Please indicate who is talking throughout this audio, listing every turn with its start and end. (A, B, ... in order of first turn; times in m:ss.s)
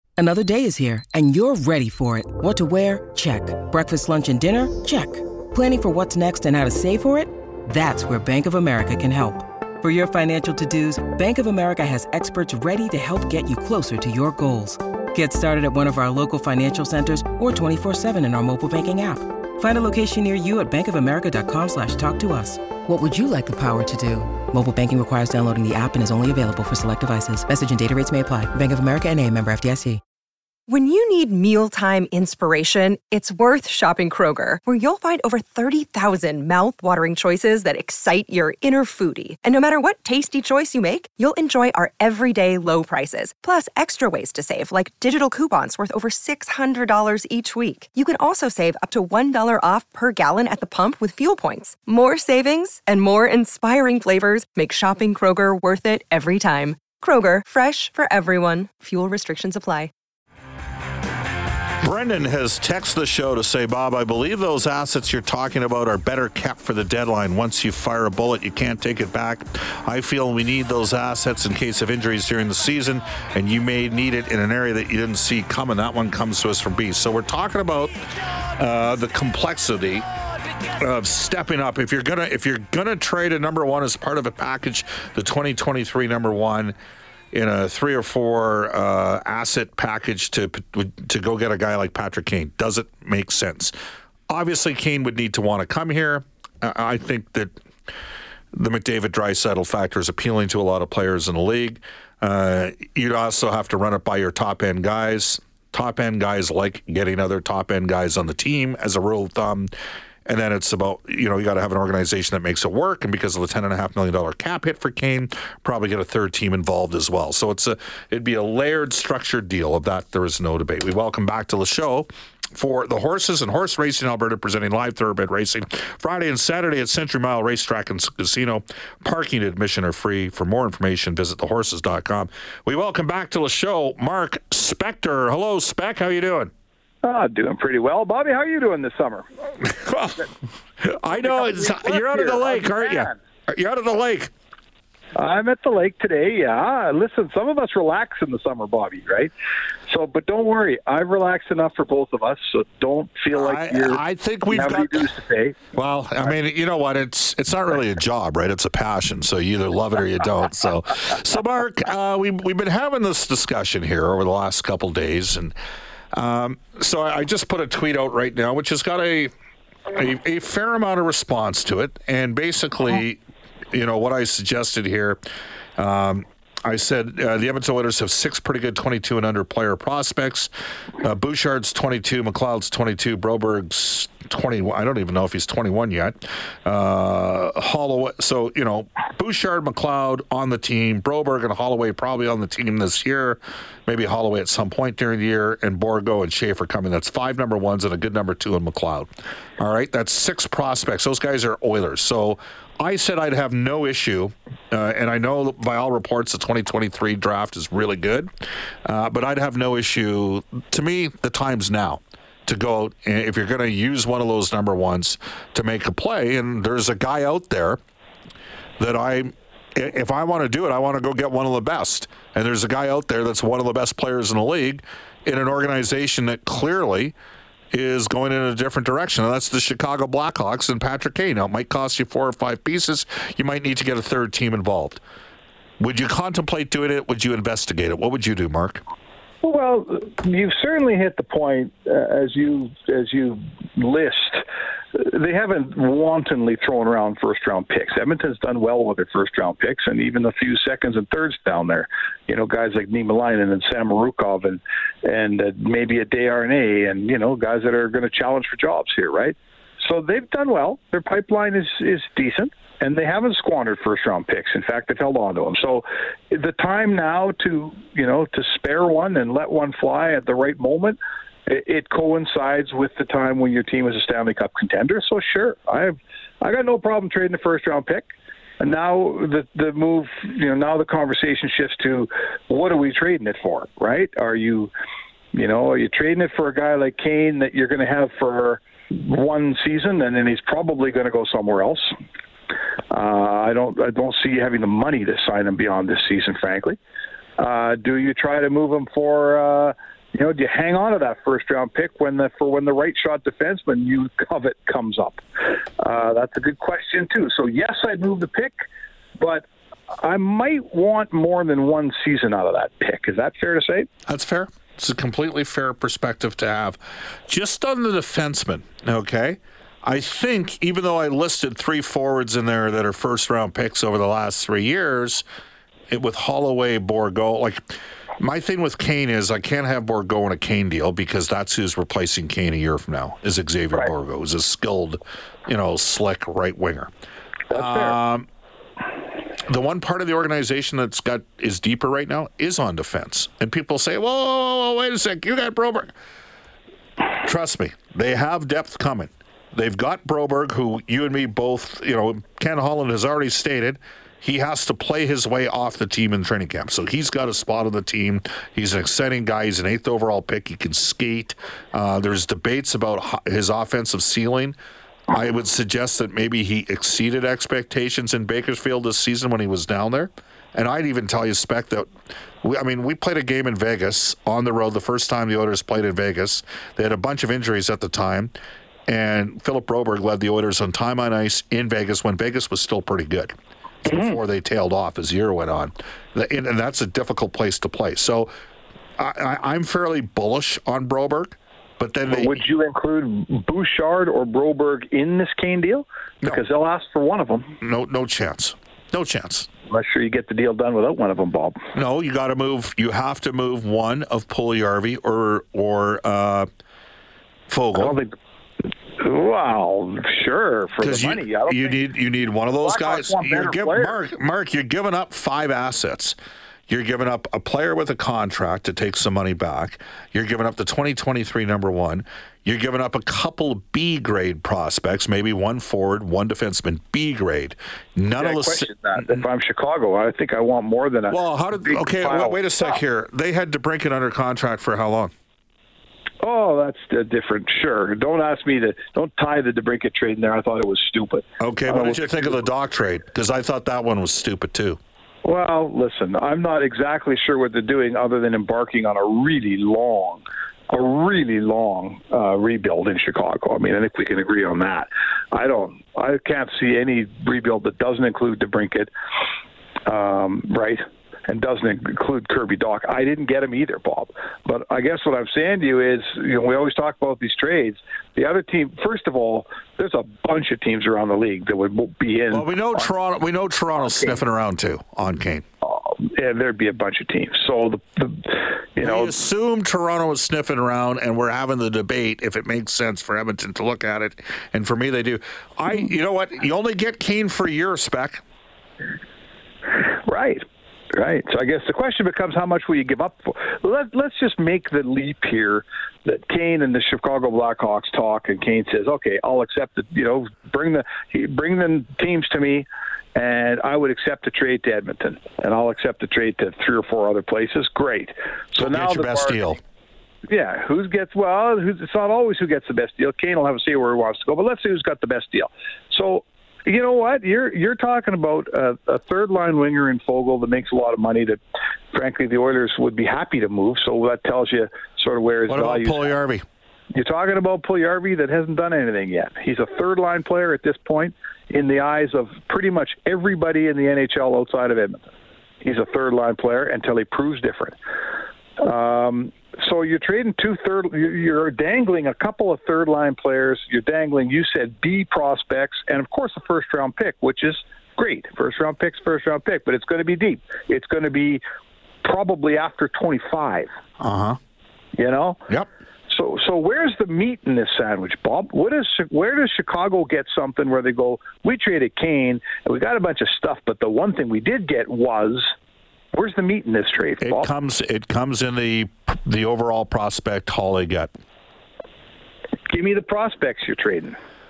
0:00.2-0:30.0 A
0:30.7-0:59.9 B
1:01.8-1:17.9 C
1:18.6-1:20.0 C
1:20.8-1:26.7 C
1:27.3-1:33.7 C
1:34.3-1:37.5 C
1:38.5-1:49.7 C
1:50.2-2:16.5 C
2:17.0-2:19.3 D
2:19.6-2:20.3 C
2:20.8-2:24.3 C
2:21.1-2:23.1 D
2:25.2-2:29.3 D
2:29.9-2:35.6 D
2:33.3-2:35.1 C
2:35.7-2:45.5 C
2:46.1-2:49.3 C
2:49.9-2:53.2 C
2:53.7-2:55.2 C
2:55.8-3:00.5 C
3:01.0-3:19.1 C
3:19.6-3:28.3 C
3:28.8-3:37.8 C
3:38.8-3:47.1 C
3:47.7-3:55.0 C
3:55.8-3:58.8 C
3:59.4-4:38.0 D
4:38.6-4:44.7 D
4:45.3-4:52.0 D
4:52.9-4:56.8 D
4:57.4-5:08.5 D
5:09.2-5:13.9 D
5:14.1-5:25.2 C
5:25.9-5:27.6 C
5:28.2-5:36.9 C
5:37.5-5:38.0 D
5:37.5-5:38.3 C
5:39.5-5:45.9 C
5:47.2-6:04.5 C
6:05.1-6:11.9 C
6:12.4-6:18.3 C
6:18.9-6:28.3 C
6:29.0-6:32.4 C
6:32.1-6:37.6 D
6:37.6-6:39.5 C
6:39.7-6:41.6 D
6:41.7-6:46.5 C
6:47.5-6:48.0 C
6:47.8-6:48.2 D
6:49.0-6:51.9 D
6:50.8-6:56.2 C
6:52.6-6:53.9 D
6:56.7-7:08.7 C
7:08.2-7:12.7 D
7:11.1-7:15.1 C
7:16.2-7:22.4 D
7:21.4-7:24.8 C
7:25.2-7:38.9 D
7:39.8-7:52.9 D
7:52.3-7:55.4 C
7:55.6-7:59.1 D
7:58.8-8:08.2 C
8:09.9-8:29.6 D
8:28.5-8:29.6 C
8:30.3-8:41.4 D
8:41.9-8:46.2 D
8:45.5-8:46.4 C
8:46.9-8:55.1 D
8:55.6-8:57.8 D
8:58.6-9:11.4 D
9:12.0-9:13.7 D
9:14.0-9:14.4 C
9:15.0-9:15.4 D
9:16.1-9:25.5 D
9:26.1-9:27.5 D
9:27.2-9:31.1 C
9:32.7-9:34.2 D